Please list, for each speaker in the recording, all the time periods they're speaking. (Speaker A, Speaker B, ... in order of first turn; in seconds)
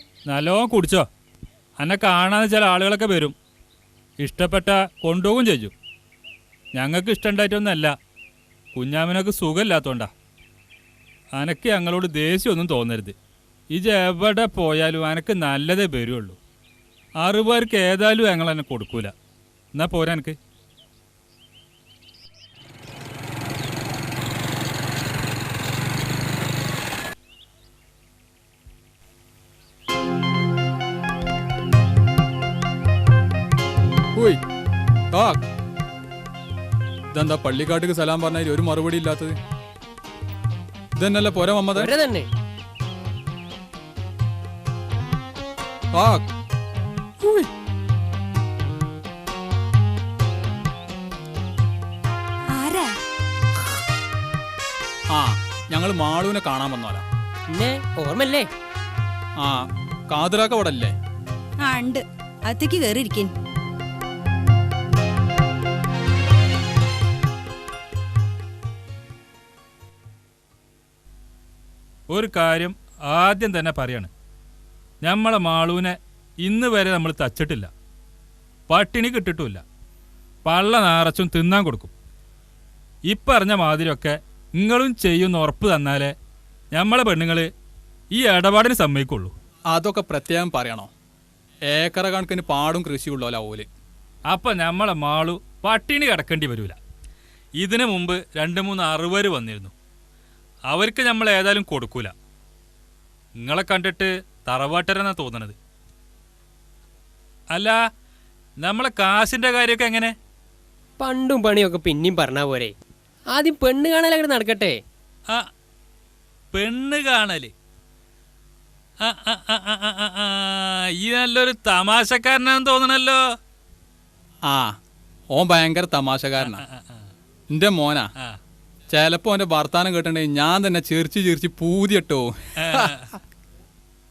Speaker A: 0.2-1.1, 1.8-3.3, 4.2-5.7, 6.7-7.9, 8.7-10.1, 11.3-13.1, 13.7-16.4, 17.2-19.1, 19.7-20.4, 72.1-74.1, 75.0-77.7, 78.7-79.6, 80.4-81.9, 83.0-86.1, 86.7-87.5, 88.1-89.3, 94.3-96.8, 97.6-99.7, 100.7-102.1, 103.4-105.5, 107.5-107.8, 108.6-110.1, 116.5-117.5, 119.0-123.2, 126.4-127.0, 132.6-133.2
Speaker B: 34.1-34.4, 35.1-35.4, 37.1-39.4, 40.9-41.9, 45.9-46.2, 55.1-57.0, 59.4-60.9, 89.7-90.9, 91.7-93.7, 124.5-124.7, 125.3-126.6, 127.5-128.1, 128.9-132.9
Speaker C: 41.8-42.3, 57.5-58.5, 111.0-112.7, 113.3-114.8
Speaker D: 52.5-52.9, 61.6-63.3